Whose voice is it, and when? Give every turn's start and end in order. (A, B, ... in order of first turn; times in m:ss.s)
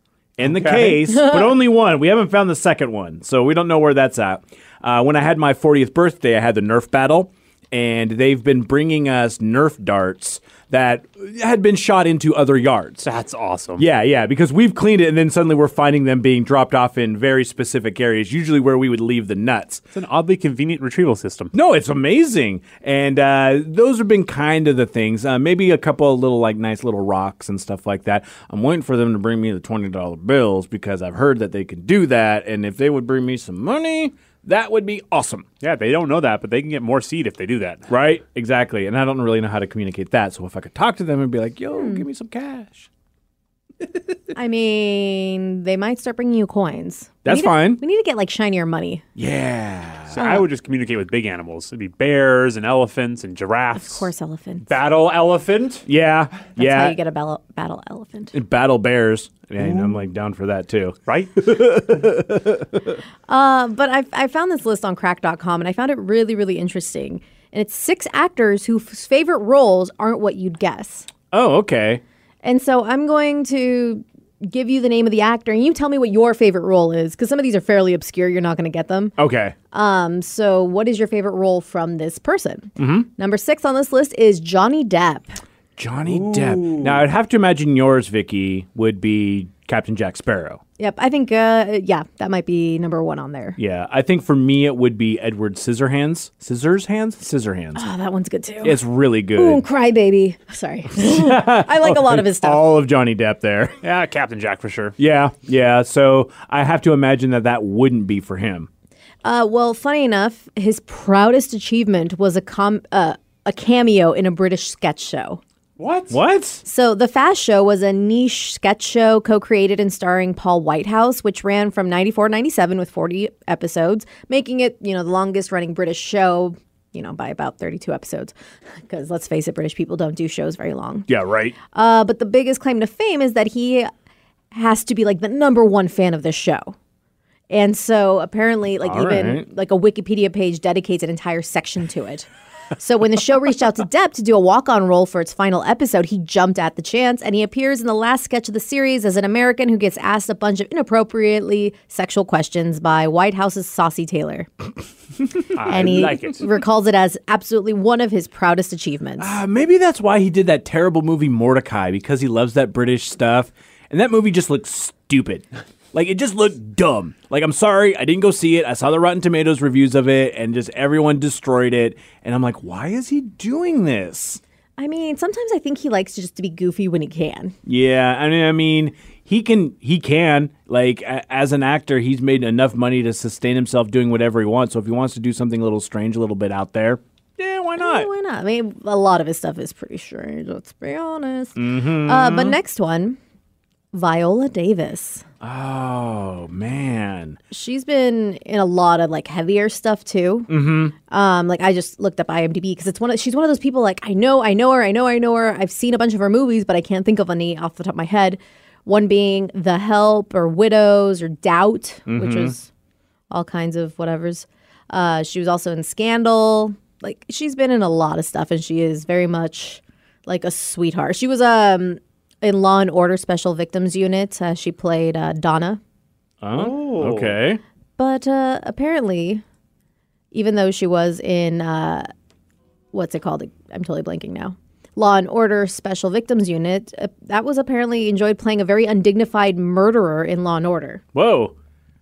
0:00.4-0:13.0 A
0:00.4-0:01.0 B
0:13.0-0:13.8 B
0:13.8-0:19.8 A
0:19.9-0:21.5 B
0:21.5-0:35.5 A
0:35.6-0:37.9 B
0:37.9-0:42.9 A
0:41.8-0:42.0 C
0:44.3-0:49.0 C
0:47.2-0:47.8 A
0:49.2-0:50.2 A
0:50.1-0:54.1 B
0:50.2-0:50.5 C
0:53.8-0:54.7 C
0:54.7-0:55.8 B
0:55.8-0:57.0 A
0:56.6-0:58.3 C
0:58.3-1:03.0 A
0:59.6-0:59.9 B
1:01.1-1:01.4 B
1:03.3-1:11.1 C
1:11.3-1:12.0 A
1:12.4-1:19.1 C
1:19.2-1:19.6 A
1:19.7-1:25.4 C
1:22.8-1:23.1 A
1:25.8-1:30.6 A
1:26.1-1:27.0 B
1:30.8-1:33.6 C
1:33.6-1:37.8 A
1:37.8-1:38.8 C
1:38.6-1:39.6 A
1:39.4-1:42.6 C
1:40.9-1:43.8 A
1:43.8-1:45.0 B
1:45.0-1:48.7 A
1:49.2-1:55.4 C
1:55.8-1:56.2 B
1:56.1-1:56.6 A
1:56.6-2:08.3 C
2:08.8-2:11.1 C
2:11.1-2:11.6 A
2:11.7-2:13.9 C
2:14.5-2:16.8 C
2:17.5-2:34.5 C
2:18.8-2:19.5 A
2:35.5-2:36.4 B
2:35.7-2:39.4 C
2:35.8-2:36.0 A
2:39.2-2:54.4 A
2:54.8-2:57.6 C
2:57.7-3:08.1 A
3:07.8-3:13.2 C
3:11.6-3:12.6 A
3:13.9-3:15.2 C
3:15.4-3:17.4 A
3:17.5-3:32.7 C
3:20.5-3:20.9 A
3:32.1-3:32.6 A
3:33.3-3:45.8 C
3:46.4-3:47.6 A
3:46.5-3:47.4 B
3:48.0-3:49.4 C
3:50.3-3:52.1 C
3:52.9-4:01.0 C
4:01.1-4:01.6 A